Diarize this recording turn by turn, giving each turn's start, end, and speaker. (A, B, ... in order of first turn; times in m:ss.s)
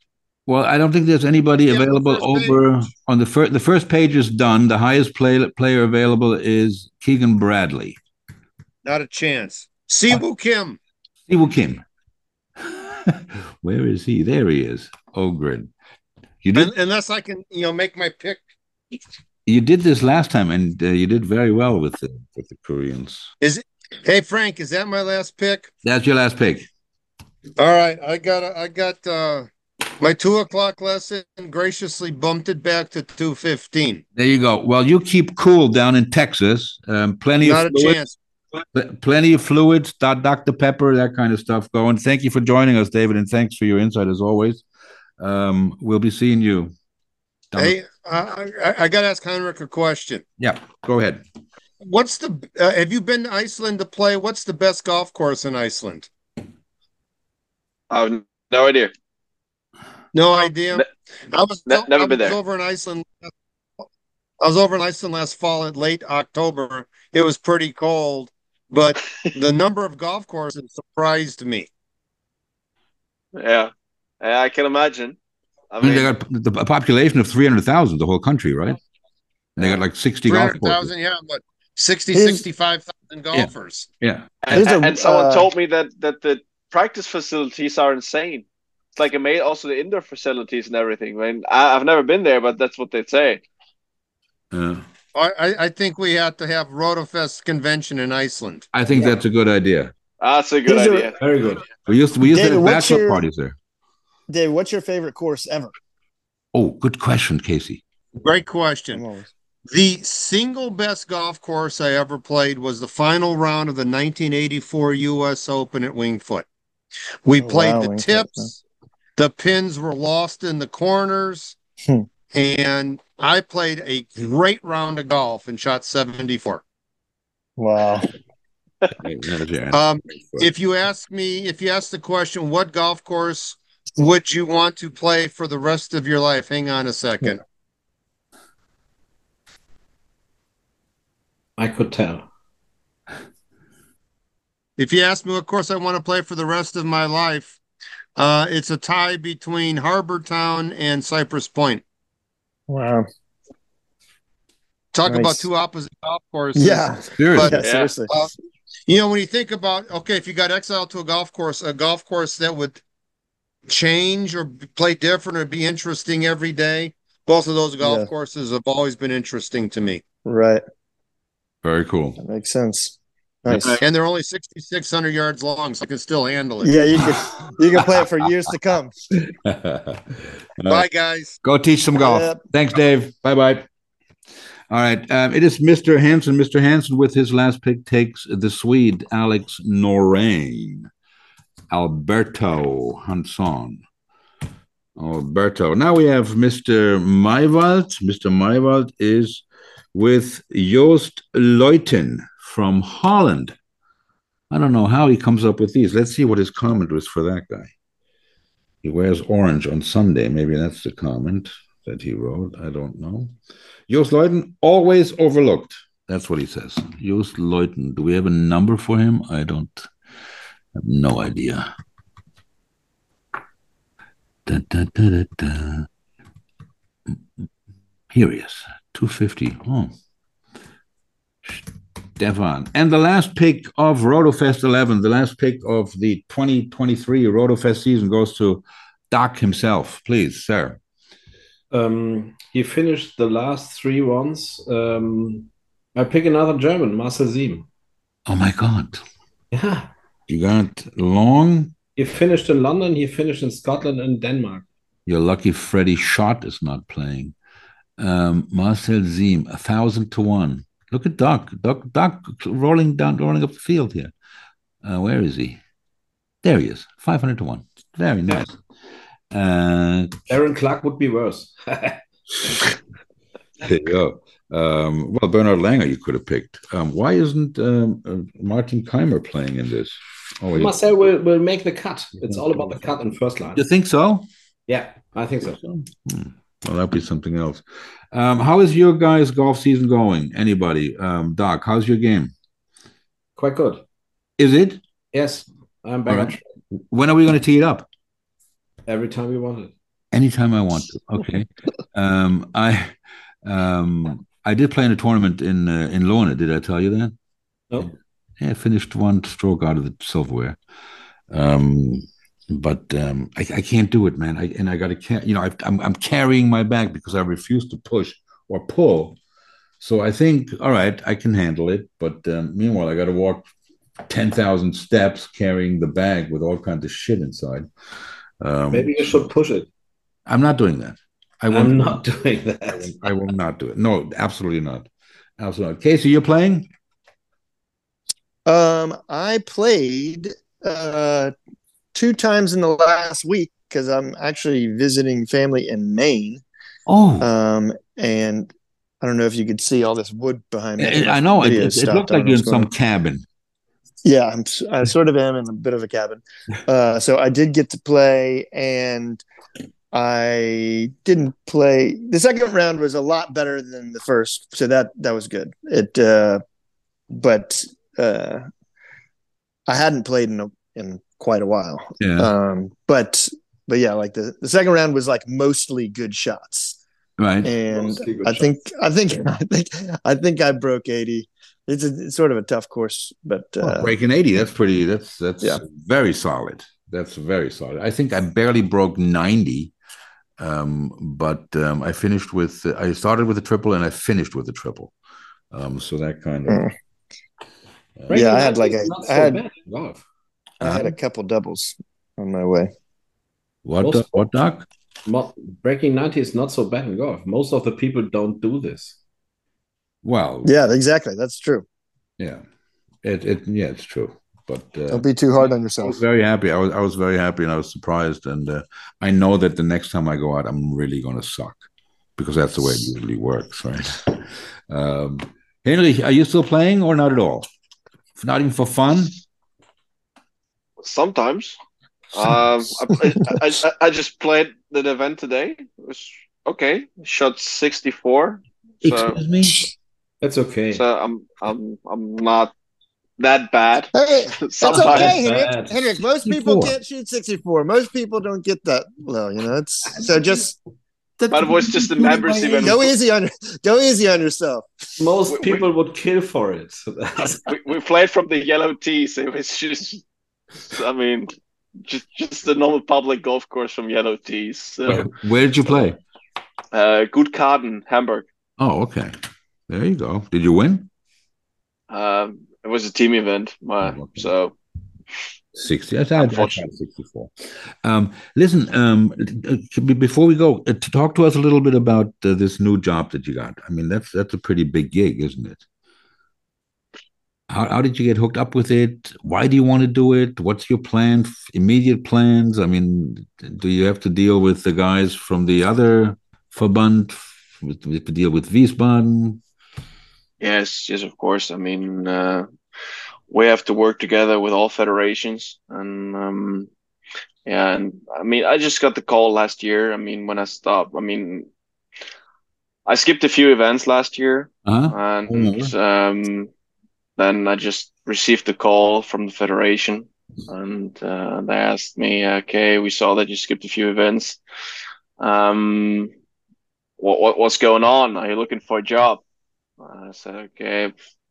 0:00.5-0:08.0 A
0:01.7-0:02.6 B
0:08.8-0:10.8 B
0:11.3-0:11.8 A
0:12.6-0:15.7 A
0:16.4-0:16.7 A
0:16.6-0:18.4 B
0:19.5-0:23.3 A
0:23.4-0:25.7 B
0:25.8-0:26.7 A
0:27.6-0:29.5 B
0:30.0-0:34.0 B
0:34.2-0:38.0 A
0:37.4-0:38.2 B
0:38.7-0:44.6 A
0:45.2-0:46.8 A
0:47.6-0:50.2 B
0:50.4-0:51.2 A
0:51.8-0:56.1 B
0:57.9-0:58.9 C
1:00.1-1:03.3 B
1:01.7-1:02.4 C
1:04.4-1:11.7 B
1:13.3-1:15.2 C
1:15.7-1:16.1 C
1:15.8-1:18.8 A
1:19.6-1:20.9 A
1:20.3-1:23.9 B
1:22.1-1:22.4 D
1:23.3-1:24.6 A
1:24.4-1:28.4 C
1:24.5-1:25.5 D
1:29.0-1:33.4 C
1:34.5-1:34.8 A
1:35.2-1:38.7 B
1:38.7-1:39.9 A
1:38.9-1:39.2 E
1:40.2-1:41.2 C
1:40.7-1:41.1 D
1:41.2-1:41.7 E
1:41.8-1:43.6 A
1:42.3-1:43.2 D
1:44.3-1:45.7 D
1:46.5-1:47.8 A
1:48.2-1:49.0 B
1:48.9-1:49.3 D
1:49.7-1:56.5 B
1:57.2-1:58.5 B
1:57.4-1:58.5 D
1:59.2-2:01.6 B
2:02.3-2:06.6 B
2:07.6-2:08.1 D
2:09.0-2:10.5 A
2:09.7-2:17.4 B
2:21.6-2:22.2 E
2:24.8-2:27.6 B
2:28.2-2:31.8 B
2:32.7-2:33.1 D
2:34.9-2:37.6 B
2:35.0-2:35.5 D
2:36.6-2:38.1 D
2:37.2-2:37.6 A
2:37.6-2:37.9 C
2:38.9-2:42.8 B
2:43.7-2:50.0 B
2:47.8-2:48.1 D
2:50.2-2:50.6 D
2:51.6-2:52.2 A
2:52.2-2:53.8 D
2:53.5-2:53.8 A
2:53.8-2:56.8 B
2:56.6-2:58.9 D
2:59.1-3:00.9 A
3:00.7-3:01.4 B
3:01.4-3:03.7 A
3:02.0-3:02.4 D
3:04.7-3:10.9 A
3:11.7-3:13.8 A
3:15.0-3:23.6 A
3:24.5-3:27.7 A
3:28.8-3:33.3 A
3:33.9-3:39.9 A
3:40.8-3:41.7 A
3:44.5-3:45.9 A
3:48.1-3:49.9 A
3:52.2-4:00.8 A
4:01.7-4:07.7 E
4:08.3-4:09.0 A
4:09.5-4:09.9 E
4:10.3-4:11.7 A
4:12.0-4:14.7 E
4:15.1-4:17.4 A
4:18.0-4:24.1 A
4:24.8-4:25.6 A
4:26.4-4:28.6 A
4:29.3-4:30.3 A
4:30.3-4:32.0 E
4:33.6-4:40.8 A
4:40.5-4:43.6 E
4:42.3-4:42.8 A
4:43.6-4:44.3 A
4:44.7-4:45.6 E
4:45.5-4:52.3 A
4:53.4-4:53.8 E
4:54.4-4:54.8 A
4:55.1-4:56.4 E
4:56.1-4:56.4 A
4:56.9-4:57.9 A
4:58.9-4:59.7 E
5:00.1-5:07.2 A
5:07.8-5:10.6 A
5:11.3-5:19.2 A
5:19.8-5:23.5 A
5:24.1-5:27.7 A
5:28.4-5:29.3 A
5:28.7-5:29.7 E
5:30.3-5:32.0 A
5:31.5-5:33.0 E
5:32.7-5:34.9 A
5:35.4-5:36.7 A
5:38.5-5:41.3 D
5:41.9-5:46.4 D
5:46.9-5:47.3 A
5:47.2-5:52.7 D
5:50.8-5:53.3 A
5:54.0-5:59.2 D
5:59.9-6:06.4 D
6:07.1-6:08.5 D
6:09.7-6:16.8 D
6:12.0-6:12.3 A
6:17.2-6:17.5 A
6:17.4-6:23.9 D
6:17.7-6:18.5 E
6:23.6-6:29.7 A
6:30.4-6:34.9 A
6:35.5-6:36.7 A
6:36.5-6:36.7 D
6:38.0-6:38.5 A
6:38.1-6:40.0 E
6:38.1-6:39.4 D
6:40.6-6:40.9 A
6:40.6-6:42.7 D
6:43.6-6:44.7 A
6:43.8-6:44.2 E
6:45.1-6:49.0 E
6:50.0-6:50.5 A
6:50.4-6:51.7 D
6:53.0-6:55.1 A
6:54.9-6:56.0 D
6:55.8-7:01.6 A
7:02.2-7:07.5 A
7:08.2-7:09.2 A
7:10.8-7:11.6 C
7:12.1-7:19.2 C
7:18.8-7:19.7 A
7:20.2-7:20.8 E
7:20.7-7:22.5 C
7:23.2-7:25.2 C
7:23.9-7:30.6 D
7:24.7-7:25.8 E
7:26.2-7:26.8 A
7:31.2-7:32.8 A
7:31.3-7:32.9 C
7:32.6-7:34.7 D
7:35.0-7:37.4 E
7:35.3-7:35.6 C
7:37.5-7:40.0 C
7:40.7-7:41.3 C
7:41.8-7:45.1 C
7:44.9-7:46.0 A
7:46.7-7:48.3 C
7:48.6-7:49.2 A
7:49.7-7:50.9 A
7:51.9-7:54.5 C
7:53.8-7:54.3 A
7:55.6-7:57.3 A
7:56.2-7:56.7 C
7:57.8-8:05.6 A
8:07.5-8:19.4 A
8:20.4-8:22.5 C
8:23.3-8:26.7 C
8:27.5-8:31.5 C
8:32.9-8:36.5 C
8:34.7-8:35.7 A
8:37.2-8:44.4 C
8:45.2-8:46.1 C
8:47.0-8:49.2 C
8:49.8-8:50.9 C